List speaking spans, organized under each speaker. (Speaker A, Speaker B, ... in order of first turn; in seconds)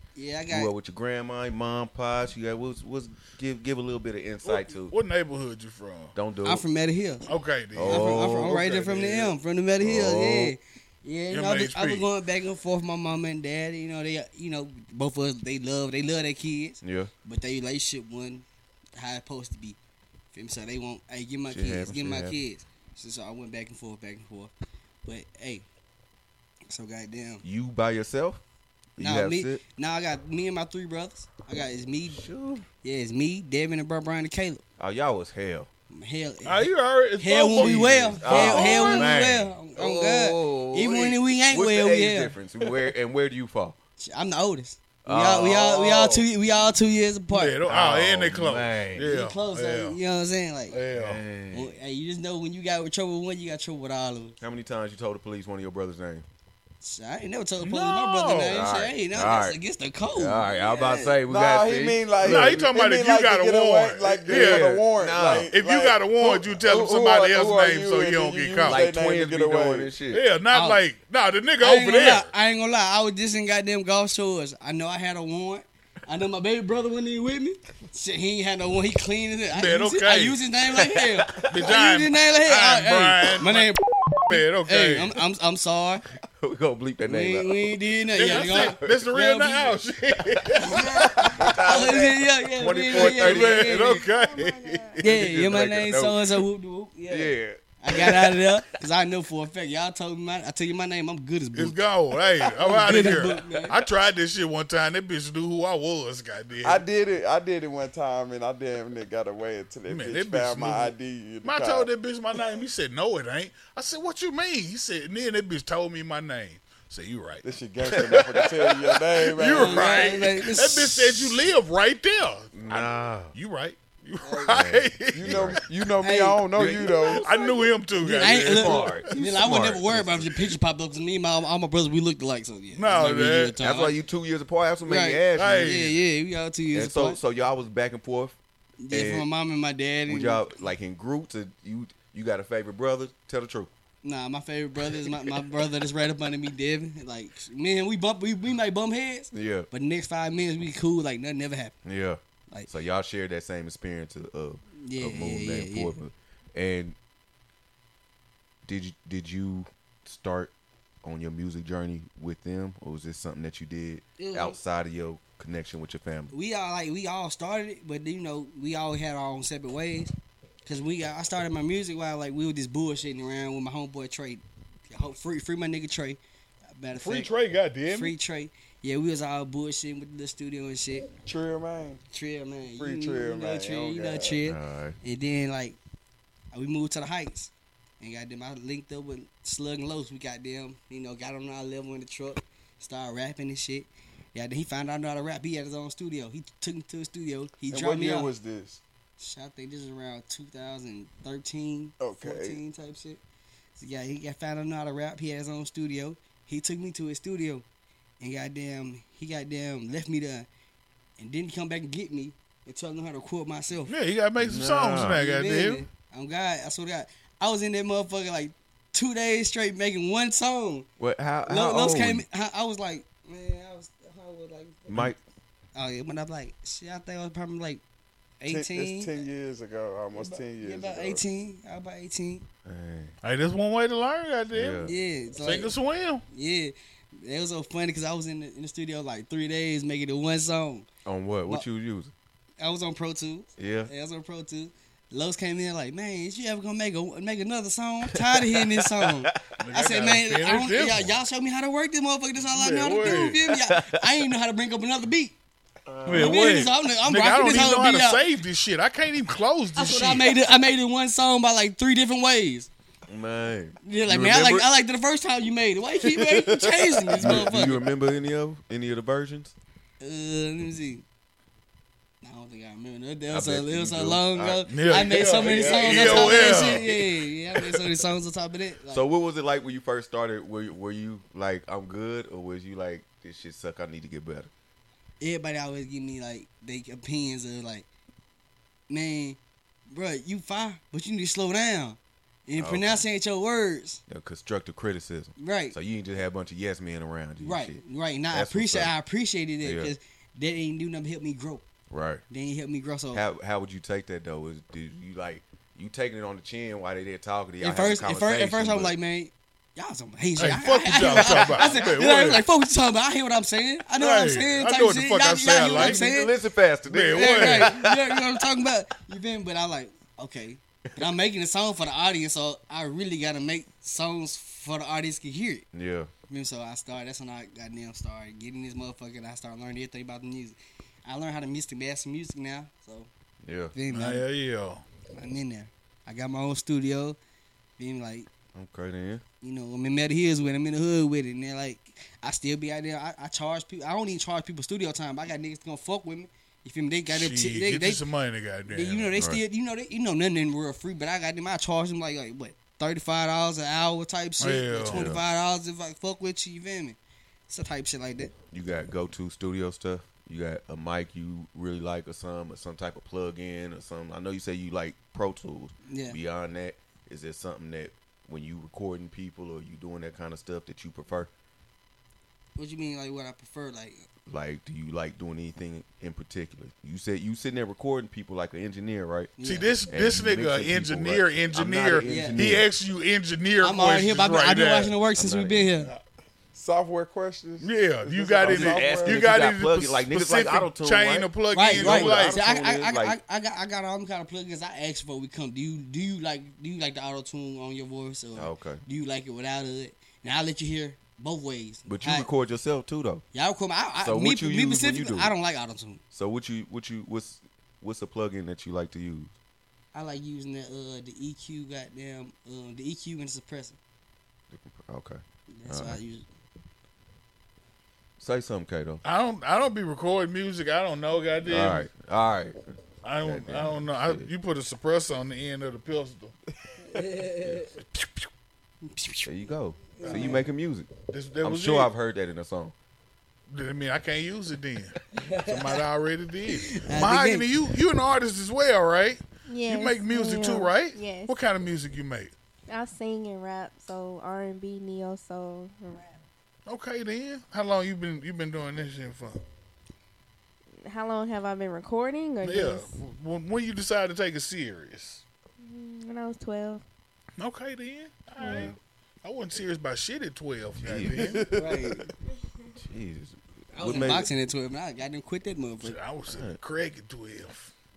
Speaker A: 0.1-0.7, 6.4-7.3, 7.8-18.4, 18.9-19.8, 20.3-24.5, 25.0-25.6, 26.7-27.4, 29.0-32.2, 32.8-34.6, 35.9-42.3, 44.0-47.6, 49.0-50.8, 51.5-54.4, 56.8-61.2, 70.5-70.8, 71.6-86.0, 87.0-89.7, 90.5-94.0, 95.0-101.8, 102.5-103.8, 119.5-121.2, 124.2-124.6, 126.0-126.4, 128.0-133.9, 134.8-137.2, 138.8-140.4, 144.0-151.8, 154.8-155.9, 164.2-164.6, 166.3-170.1, 170.6-176.2, 176.8-177.3, 177.9-181.1, 182.1-185.8, 186.5-198.3, 199.2-203.2, 203.8-207.6, 208.2-210.5, 211.2-213.9, 215.0-220.9, 221.4-225.2, 225.7-227.8, 228.4-229.1, 230.1-232.4, 234.8-235.7, 236.3-240.9, 242.6-255.3, 256.1-258.2, 259.7-262.7, 263.8-267.9, 270.0-271.0, 272.2-279.0, 285.2-287.9, 288.9-289.4, 289.9-294.0, 295.4-295.8, 297.4-301.6, 302.3-303.2, 307.6-316.3, 317.1-325.6, 326.3-333.1, 333.7-334.2, 335.1-337.2, 337.8-338.3, 339.4-348.0, 348.7-358.3, 365.9-366.2, 372.6-374.1, 379.4-379.8, 382.0-382.4, 383.6-385.9, 391.5-402.3, 403.3-406.0, 409.9-413.8, 415.5-416.2, 426.9-427.7, 428.8-429.3, 429.9-430.4, 435.2-435.7, 436.5-437.5, 461.5-462.1, 463.7-466.0
Speaker B: 0.5-4.9, 6.1-6.6, 7.7-8.6, 9.8-10.5, 16.8-17.1, 21.5-22.4, 27.4-28.4, 28.9-29.6, 32.1-32.6, 34.8-35.7, 37.6-43.8, 45.0-46.3, 47.6-49.1, 50.9-51.7, 54.4-56.2, 58.5-59.6, 60.1-62.6, 64.2-65.5, 68.6-70.2, 80.7-81.7, 86.3-89.1, 90.2-94.0, 95.0-96.4, 97.1-98.6, 103.0-103.8, 117.9-118.5, 122.5-123.3, 124.5-125.6, 126.5-127.1, 128.1-130.5, 133.6-135.7, 136.7-138.4, 138.9-139.3, 140.1-143.7, 144.9-145.4, 149.3-149.7, 151.8-156.9, 158.7-166.3, 184.4-185.0, 214.4-215.2, 221.0-222.2, 224.9-225.2, 232.6-233.1, 234.5-234.9, 241.0-242.1, 243.6-243.9, 248.1-249.5, 253.5-254.2, 255.8-256.4, 263.1-264.7, 267.1-269.5, 273.3-277.8, 278.9-284.5, 292.6-293.0, 294.1-297.8, 298.3-298.9, 299.6-299.9, 301.9-302.2, 303.1-308.9, 311.0-312.0, 315.7-318.4, 325.7-326.1, 333.4-333.7, 338.5-339.2, 349.1-349.4, 354.9-355.2, 358.5-371.3, 374.2-379.3, 379.9-382.6, 385.1-385.7, 388.4-393.2, 398.4-398.8, 401.9-403.2, 404.0-405.3, 406.1-409.3, 414.5-416.0, 418.2-419.0, 421.4-424.3, 429.2-432.7, 458.4-458.7, 460.8-461.4, 462.8-464.3, 466.3-466.6
Speaker C: 4.4-6.1, 7.3-9.3, 11.3-12.1, 36.4-39.1, 47.3-50.0, 50.7-51.2, 57.6-58.7, 62.2-68.9, 70.1-72.3, 79.5-80.4, 81.4-83.7, 84.3-85.2, 88.1-91.7, 92.6-95.0, 101.5-106.8, 109.9-118.5, 119.2-125.6, 127.1-129.1, 132.7-133.6, 135.3-135.9, 176.9-178.1, 213.9-215.8, 233.2-236.2, 249.6-251.1, 252.5-253.4, 256.1-260.3, 274.7-276.9, 310.4-312.4, 314.0-316.1, 316.9-317.7, 333.9-334.8, 347.1-349.1, 354.4-355.1, 379.4-384.9, 387.6-392.4, 419.0-421.9, 423.0-426.3, 427.9-428.3, 430.0-430.4, 431.1-431.9, 433.5-442.3, 446.6-449.4, 452.4-455.2, 457.4-461.5, 465.8-467.7
Speaker D: 61.2-70.0, 106.6-111.9, 117.4-120.1, 125.1-127.4, 181.2-182.0, 182.8-184.4, 197.7-198.8, 202.0-202.6, 228.5-231.2, 267.2-267.4, 386.5-389.3, 461.1-462.1
Speaker E: 93.9-95.0, 439.5-441.4, 442.7-446.2, 450.8-452.9, 455.6-456.8, 458.4-458.7